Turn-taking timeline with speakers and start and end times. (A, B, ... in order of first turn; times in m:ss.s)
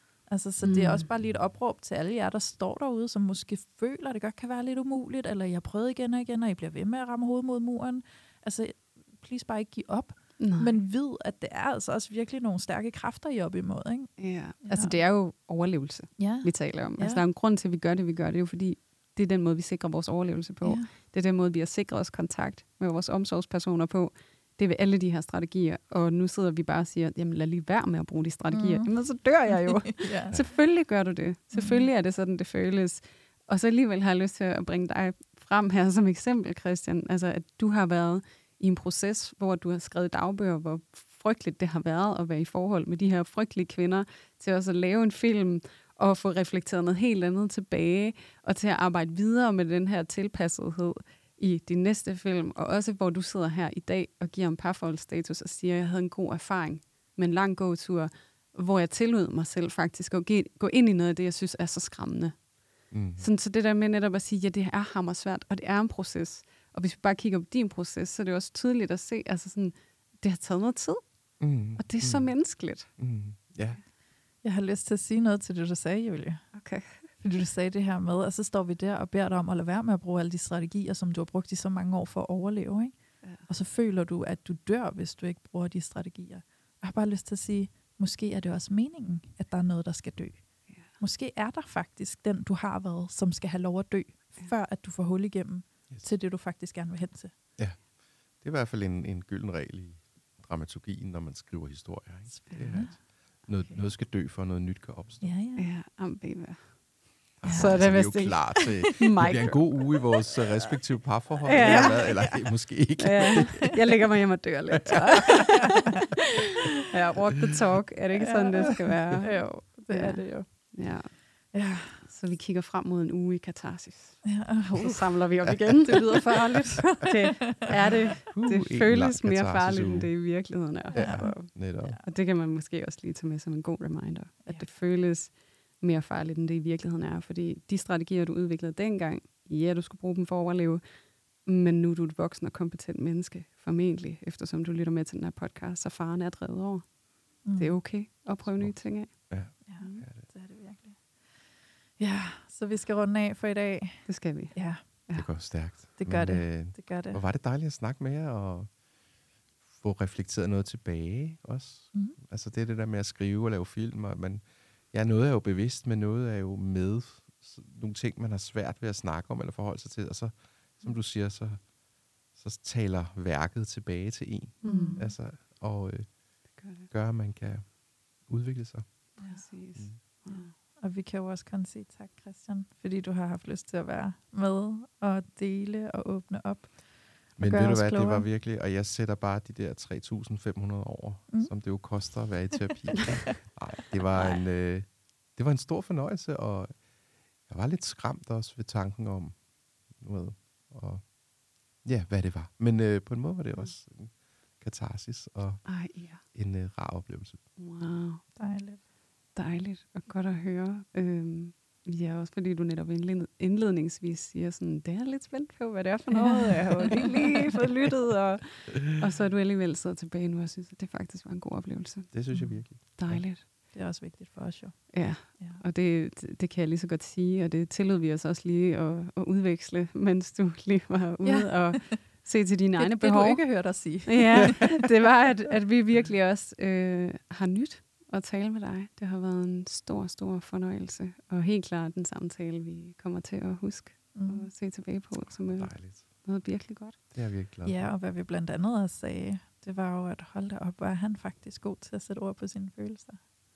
0:00.3-0:14.1 A
0:00.6-0:01.1 B
0:10.4-0:10.7 B
0:14.2-1:02.4 B
0:14.6-0:15.0 A
0:16.2-0:17.2 A
0:20.6-0:20.9 A
0:28.5-0:28.9 A
0:29.6-0:30.4 A
0:31.5-0:31.9 A
1:02.9-1:03.2 C
1:03.2-1:11.0 B
1:11.4-1:12.4 C
1:11.8-1:12.9 B
1:13.0-1:13.8 C
1:14.4-1:16.4 A
1:16.5-1:17.1 B
1:17.2-1:37.3 A
1:37.6-1:37.9 C
1:38.4-1:45.3 C
1:42.3-1:43.0 A
1:45.2-1:45.6 A
1:45.6-1:49.8 B
1:47.4-1:53.8 C
1:47.4-1:47.9 A
1:51.5-1:52.2 B
1:51.6-1:52.3 A
1:53.0-2:20.8 B
1:54.9-1:56.0 A
1:58.2-2:02.0 A
2:04.2-2:05.1 A
2:05.4-2:05.8 C
2:05.9-2:07.9 A
2:08.3-2:12.0 C
2:10.9-2:12.0 A
2:21.4-2:30.0 B
2:27.4-2:27.8 A
2:28.4-2:30.2 C
2:29.6-2:31.0 A
2:32.0-2:34.8 A
2:34.1-2:35.3 B
2:35.1-2:38.7 C
2:36.0-2:37.2 A
2:39.7-2:51.7 C
2:52.3-2:56.2 C
2:54.6-2:55.1 B
2:54.6-2:55.1 A
2:56.6-2:56.9 B
2:56.9-2:59.2 C
2:59.2-2:59.5 A
2:59.2-3:00.5 B
3:00.0-3:08.3 A
3:07.4-3:16.8 C
3:14.1-3:14.4 B
3:17.5-3:21.2 C
3:21.8-3:27.4 C
3:25.6-3:26.2 B
3:27.6-3:28.2 B
3:28.4-3:28.8 A
3:29.3-3:43.4 B
3:36.1-3:37.3 A
3:42.1-3:43.2 C
3:42.3-3:42.6 A
3:43.6-3:45.6 A
3:44.9-4:07.0 B
3:51.2-3:52.2 A
3:52.8-3:54.7 A
4:04.1-4:04.5 A
4:05.3-4:06.0 C
4:07.1-4:07.9 C
4:07.6-4:13.2 A